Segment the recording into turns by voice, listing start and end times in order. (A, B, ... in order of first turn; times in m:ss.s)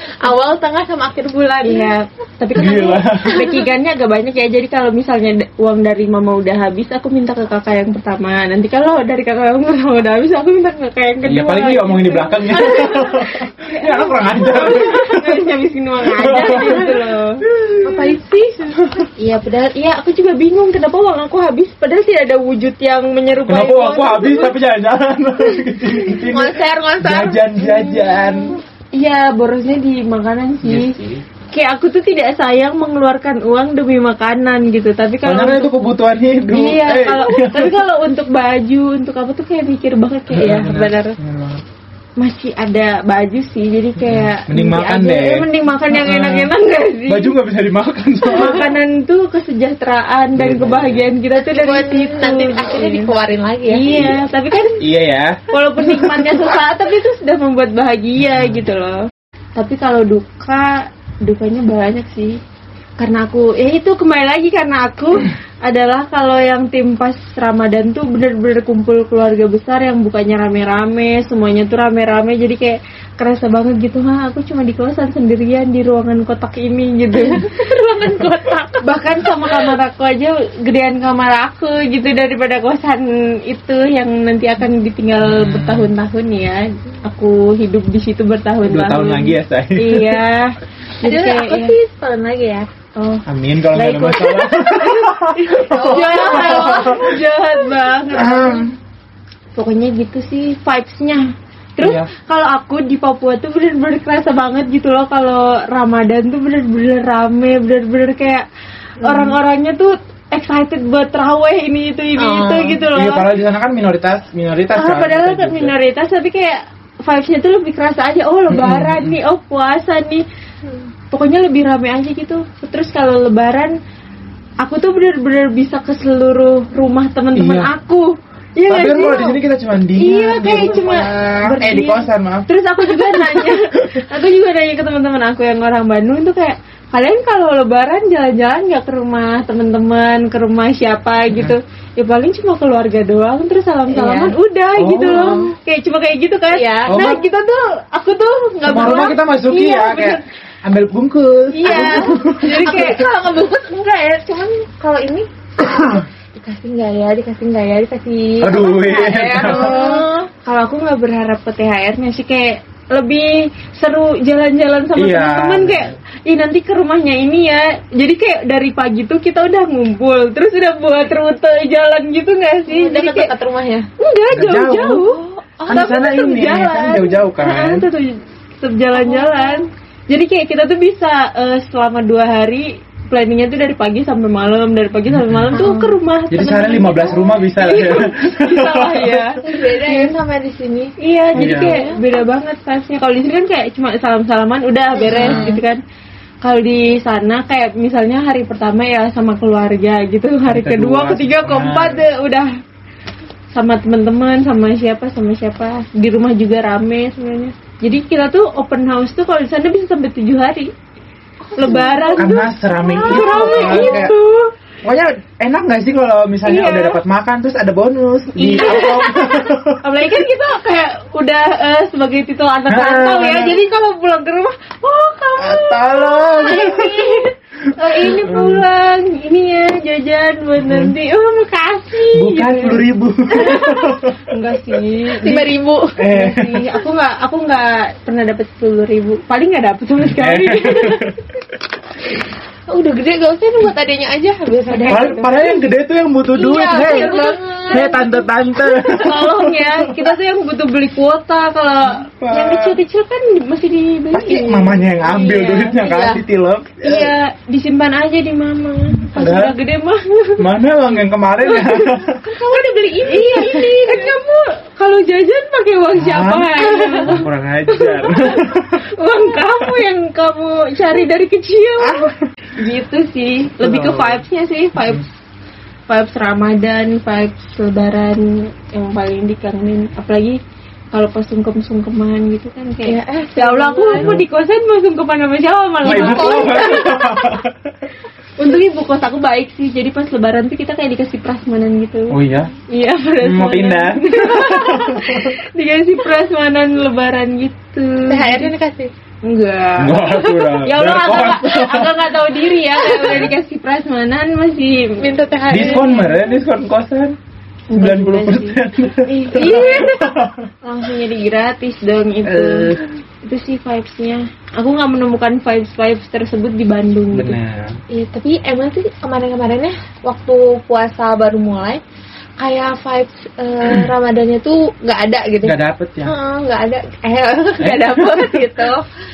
0:00.2-0:01.9 A
0:01.6-0:17.4 B
0:02.5-0:03.5 C
0:11.2-0:15.5 C
0:16.0-0:18.1 C
0:16.5-0:16.9 A
0:17.8-0:18.7 A
0:18.8-0:19.1 C
0:19.2-0:24.5 B
0:23.5-0:28.6 C
0:26.3-0:27.5 A
0:29.0-0:31.0 B
0:30.6-0:31.2 C
0:31.5-0:35.7 B
0:35.2-0:37.8 C
0:36.5-0:41.2 B
0:40.3-0:41.6 C
0:42.2-0:47.4 B
0:44.0-0:46.5 C
0:47.1-0:48.7 C
0:48.3-0:53.1 B
0:50.4-0:51.1 C
0:51.4-0:54.0 A
0:53.7-0:54.8 B
0:53.9-0:54.2 C
0:54.8-0:56.4 C
0:55.5-1:02.4 B
0:58.2-0:58.6 C
1:03.0-1:31.8 B
1:17.3-1:18.8 A
1:25.2-1:25.9 C
1:28.7-1:30.2 C
1:31.0-1:32.7 A
1:33.0-1:38.7 B
1:33.3-1:37.2 C
1:35.6-1:37.1 A
1:38.1-1:38.7 C
1:39.6-1:48.5 B
1:41.8-1:42.1 C
1:49.0-1:53.3 B
1:49.0-1:49.4 A
1:52.2-1:52.8 A
1:52.9-1:55.7 C
1:54.8-2:00.2 B
1:58.5-1:59.2 C
2:01.1-2:03.8 B
2:04.6-2:09.4 B
2:07.4-2:07.7 C
2:08.7-2:14.0 C
2:10.0-2:30.2 B
2:10.4-2:11.2 A
2:23.9-2:24.4 A
2:24.8-2:25.5 C
2:25.1-2:25.5 A
2:26.5-2:27.2 A
2:26.9-2:27.2 C
2:28.7-2:32.9 C
2:31.5-2:33.1 B
2:31.6-2:40.2 A
2:35.6-2:36.1 C
2:38.4-2:39.8 C
2:39.4-2:53.3 B
2:45.0-2:46.0 C
2:52.7-2:53.9 A
2:54.0-3:10.1 B
2:54.3-2:55.0 C
2:55.1-2:55.9 A
2:55.7-2:57.9 C
2:59.0-2:59.6 A
3:05.1-3:05.7 C
3:05.5-3:06.0 A
3:06.3-3:09.4 C
3:09.4-3:12.0 A
3:11.0-3:15.8 B
3:11.4-3:11.8 C
3:15.0-3:15.6 A
3:15.1-3:15.5 C
3:16.4-3:22.5 B
3:20.5-3:22.1 C
3:23.5-3:30.7 B
3:31.5-3:34.1 A
3:31.6-3:34.5 B
3:32.2-3:34.2 C
3:34.8-3:39.8 C
3:36.4-3:37.0 B
3:38.4-3:55.5 B
3:42.7-3:43.6 C
3:45.4-3:47.1 C
3:48.0-3:48.6 C
3:50.6-3:51.0 C
3:52.1-3:54.2 C
3:55.2-3:56.0 A
3:56.0-3:56.8 C
3:56.1-4:01.0 B
4:00.0-4:01.2 C
4:02.7-4:05.2 A
4:04.7-4:05.5 B
4:04.9-4:10.1 C
4:06.3-4:08.1 A
4:06.4-4:08.2 B
4:08.9-4:16.0 B
4:12.1-4:12.8 C
4:14.1-4:17.1 C
4:15.9-4:16.2 A
4:16.8-4:20.4 B
4:19.1-4:19.6 C
4:20.4-4:22.2 C
4:21.5-4:21.7 B
4:22.2-4:24.2 A
4:23.0-4:27.2 B
4:26.0-4:28.8 C
4:26.7-4:27.1 A
4:27.7-4:28.5 B
4:29.0-4:35.1 B
4:31.8-4:32.1 C
4:33.6-4:34.2 C
4:34.8-4:35.0 C
4:35.9-4:40.4 B
4:40.9-4:47.3 B
4:42.9-4:44.1 A
4:44.0-4:44.3 C
4:45.8-4:46.9 A
4:45.8-4:47.7 C
4:48.4-4:52.2 B
4:52.1-4:52.5 C
4:52.7-4:58.5 B
4:53.2-4:55.3 C
4:58.1-4:58.9 A
4:59.2-5:06.2 B
4:59.8-5:02.1 C
5:02.8-5:03.3 C
5:05.0-5:06.1 A
5:05.5-5:07.2 C
5:07.7-5:17.4 B
5:07.7-5:10.5 C
5:12.2-5:12.8 C
5:17.1-5:17.8 C
5:17.9-5:21.8 A
5:22.4-5:28.9 A
5:25.4-5:26.1 C
5:27.6-5:28.5 C